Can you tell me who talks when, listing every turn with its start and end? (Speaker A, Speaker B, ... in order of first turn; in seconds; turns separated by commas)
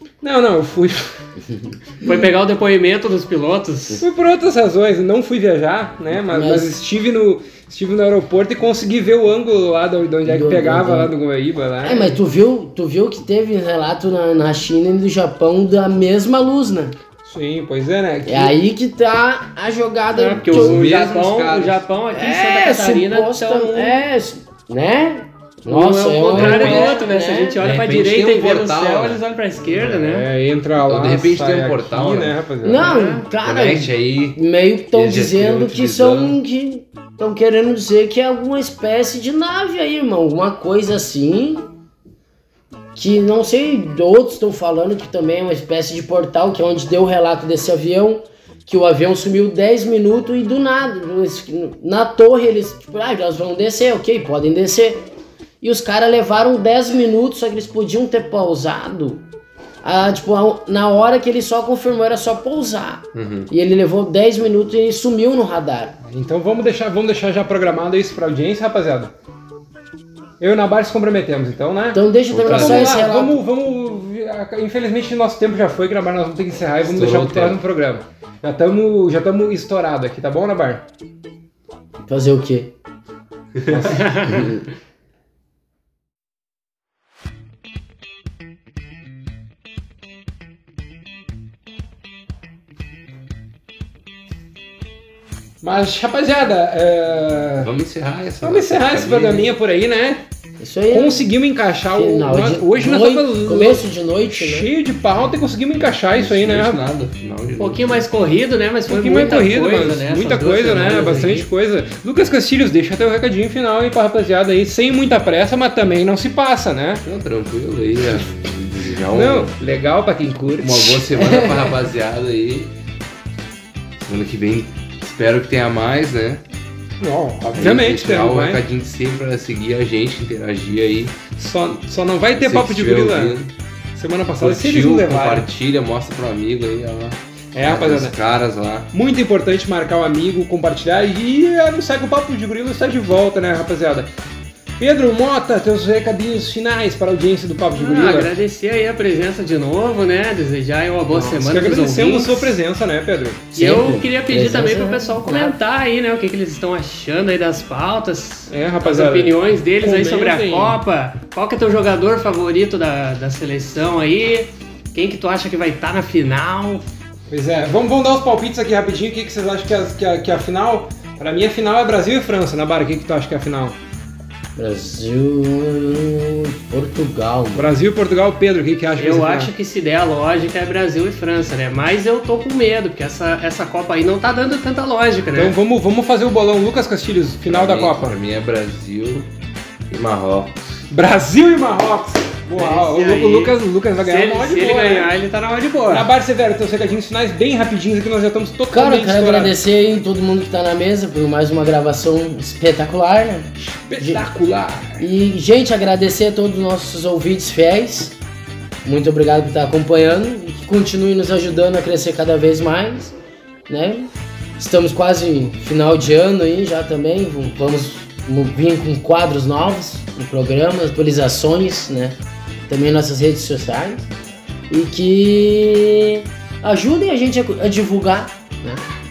Speaker A: 0.2-1.2, Speaker B: 1.5-1.8, Speaker C: 2.0-4.0, Speaker A: 4.0-12.2, Speaker B: 6.3-6.7, Speaker B: 10.3-11.1, Speaker B: 11.8-16.9, Speaker A: 17.2-18.5, Speaker B: 18.2-20.8, Speaker C: 20.1-24.0, Speaker D: 20.4-21.8, Speaker B: 22.1-27.6, Speaker C: 25.6-30.3, Speaker D: 26.3-27.0, Speaker D: 27.6-29.2, Speaker A: 29.8-32.9, Speaker D: 30.8-32.4, Speaker B: 32.6-41.7, Speaker C: 32.8-33.2, Speaker D: 33.4-34.4, Speaker D: 34.9-36.4, Speaker B: 42.9-55.1, Speaker B: 55.6-59.2, Speaker B: 59.8-66.0, Speaker D: 63.1-63.5, Speaker A: 66.0-69.1, Speaker A: 70.4-80.8, Speaker B: 71.9-73.4, Speaker D: 72.3-73.0, Speaker D: 76.8-77.6, Speaker B: 82.0-82.7, Speaker A: 83.6-84.5, Speaker C: 84.0-84.3, Speaker B: 84.3-84.6, Speaker A: 95.6-97.7, Speaker D: 97.6-99.5, Speaker A: 98.4-100.2, Speaker B: 100.6-101.3, Speaker A: 100.9-106.8, Speaker B: 101.9-104.7, Speaker D: 106.1-108.0, Speaker C: 107.6-111.5, Speaker A: 108.9-117.0, Speaker D: 117.0-119.5, Speaker A: 119.1-121.0, Speaker D: 120.6-122.7, Speaker B: 121.2-121.7, Speaker D: 124.0-126.4, Speaker A: 127.0-128.6, Speaker D: 127.4-131.2, Speaker A: 131.3-133.4, Speaker D: 132.3-133.5, Speaker A: 133.9-135.5, Speaker D: 134.4-138.9, Speaker A: 137.5-138.2, Speaker A: 138.9-144.1, Speaker A: 144.8-148.3, Speaker C: 147.7-152.6, Speaker A: 151.1-153.4, Speaker B: 153.5-155.6, Speaker C: 153.6-166.9, Speaker A: 158.5-160.8, Speaker A: 167.3-173.8, Speaker B: 174.6-177.7, Speaker A: 177.5-179.5, Speaker C: 178.9-185.6, Speaker A: 185.3-188.2, Speaker D: 187.4-189.3, Speaker D: 189.9-190.7, Speaker A: 190.9-195.1, Speaker C: 192.5-196.1, Speaker A: 195.9-199.6, Speaker B: 198.7-204.2, Speaker A: 203.8-205.0, Speaker B: 205.0-208.2, Speaker B: 208.8-213.1, Speaker B: 213.7-222.2, Speaker B: 222.7-224.1, Speaker B: 224.7-228.8